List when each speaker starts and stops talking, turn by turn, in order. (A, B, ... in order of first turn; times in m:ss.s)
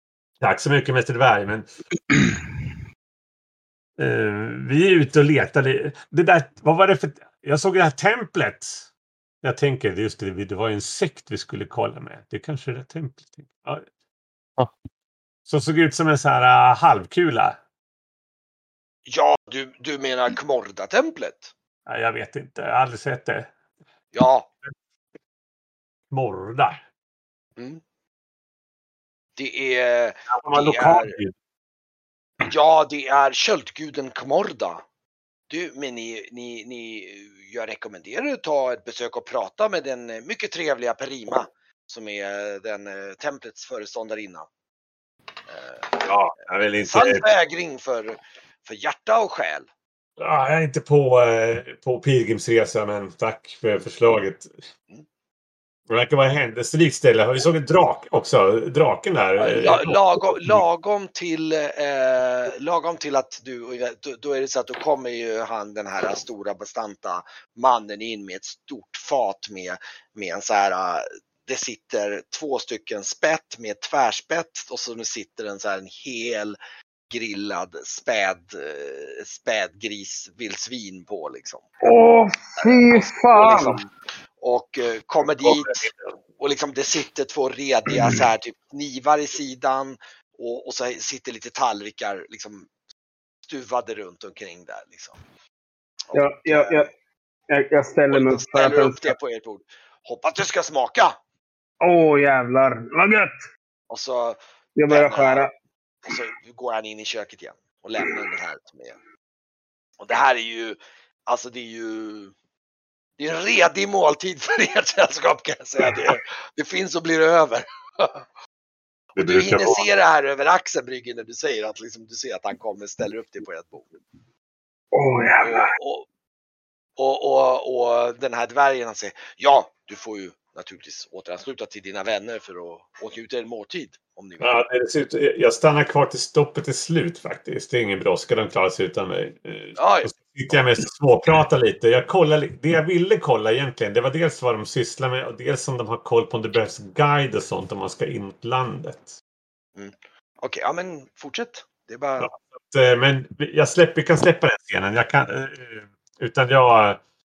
0:00.4-0:01.7 A
0:04.0-0:08.8 A
0:09.4-0:13.8 A
0:15.5-0:17.6 A
0:19.1-0:21.5 B
0:21.9-0:23.5 A
0:24.1-0:24.5 B
0:26.1-0:26.8 A
0:29.4-0:31.2 B
0:30.3-0:31.3 A
0:32.4-0:34.8 B
0:35.5-0:44.5 B
0:45.5-0:46.1 B
0:46.0-0:47.3 A
0:46.8-0:49.7 B
0:50.2-0:54.5 A
0:55.9-1:00.6 A
0:59.4-1:16.6 B
1:17.1-1:21.7 B
1:21.8-1:23.8 C
1:22.6-1:32.7 B
1:25.4-1:26.0 A
1:33.5-1:35.2 B
1:36.1-1:36.9 B
1:36.1-1:36.9 C
1:37.5-1:39.1 C
1:38.1-1:41.2 B
1:41.8-1:43.4 C
1:43.9-1:45.5 B
1:44.8-1:45.5 C
1:46.1-1:49.0 B
1:50.0-1:52.3 B
1:53.2-1:58.2 B
1:59.2-1:59.8 A
1:59.2-2:03.9 B
2:04.9-2:05.6 C
2:05.4-2:06.1 B
2:07.0-2:14.6 B
2:14.4-2:29.2 A
2:19.8-2:20.7 B
2:29.8-2:32.3 B
2:32.2-2:37.0 A